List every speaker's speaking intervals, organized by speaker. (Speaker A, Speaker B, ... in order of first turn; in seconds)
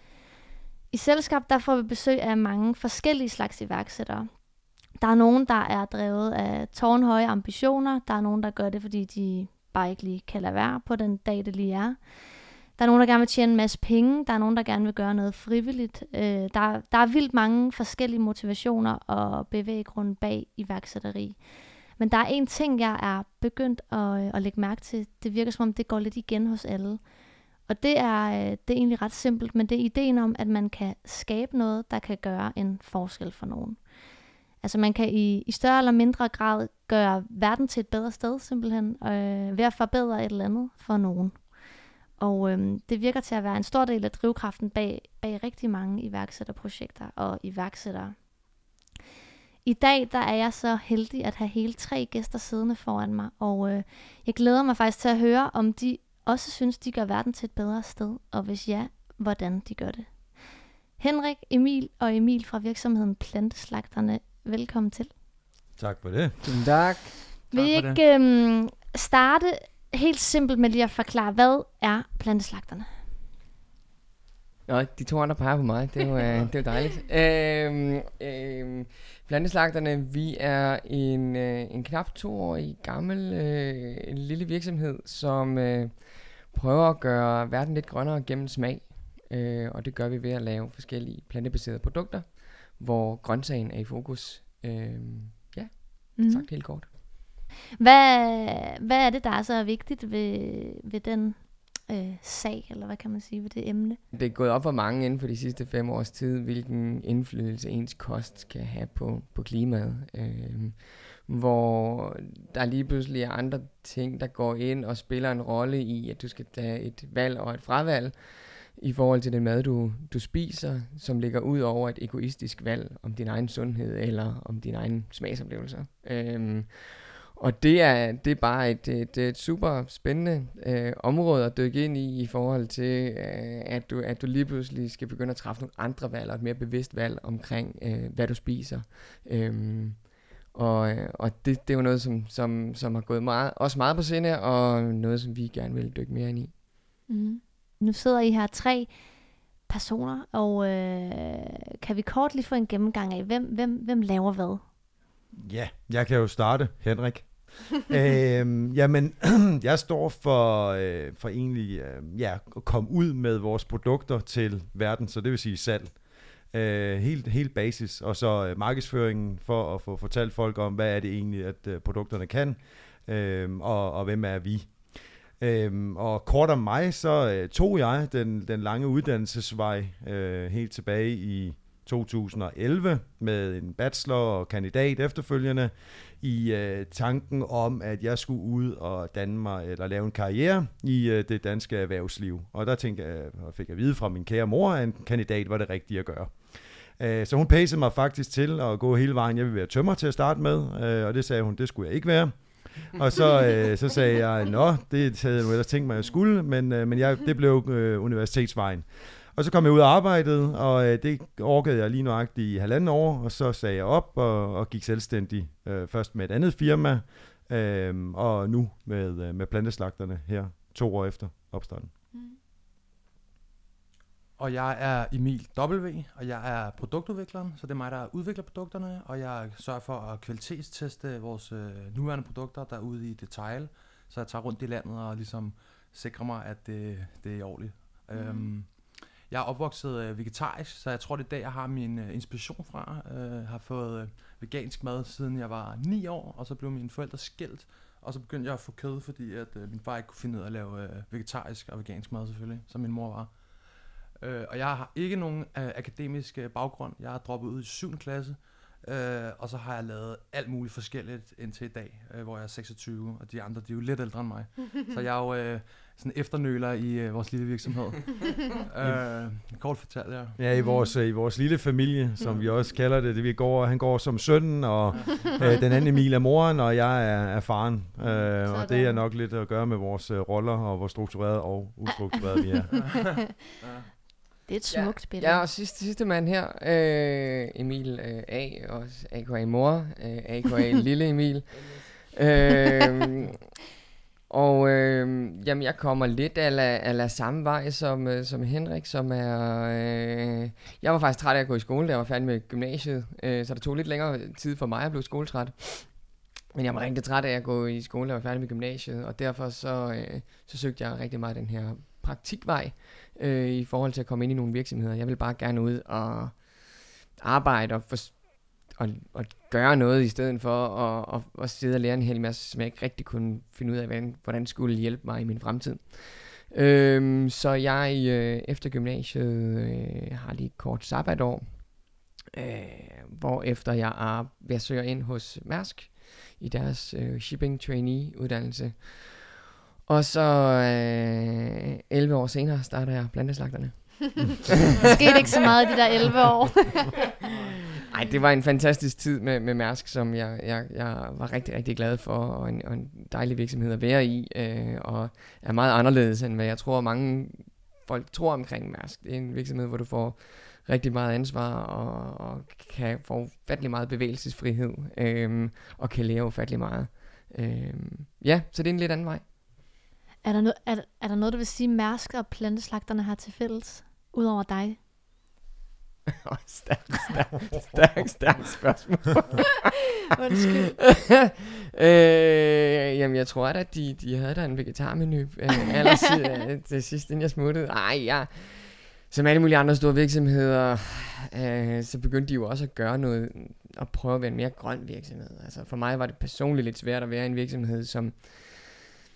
Speaker A: 0.9-33.9, 34.5-41.5, 42.1-48.3, 49.6-65.1, 67.5-73.0, 96.2-96.7, 97.8-104.0, 147.1-154.7, 238.1-238.5, 270.5-270.9, 278.4-279.0, 281.9-282.8, 284.4-285.4, 344.9-347.0, 370.2-374.8, 380.1-380.8
Speaker B: 65.8-66.4, 155.3-221.9, 270.4-283.2
Speaker C: 66.4-67.2, 74.7-96.9, 104.1-146.5, 284.7-293.3, 294.3-344.4, 347.9-369.3, 376.2-379.7, 380.8-398.8
Speaker D: 67.5-68.0, 224.4-253.6, 254.2-270.4, 272.2-272.5, 274.9-275.6, 278.0-278.3, 283.6-283.9, 347.2-347.7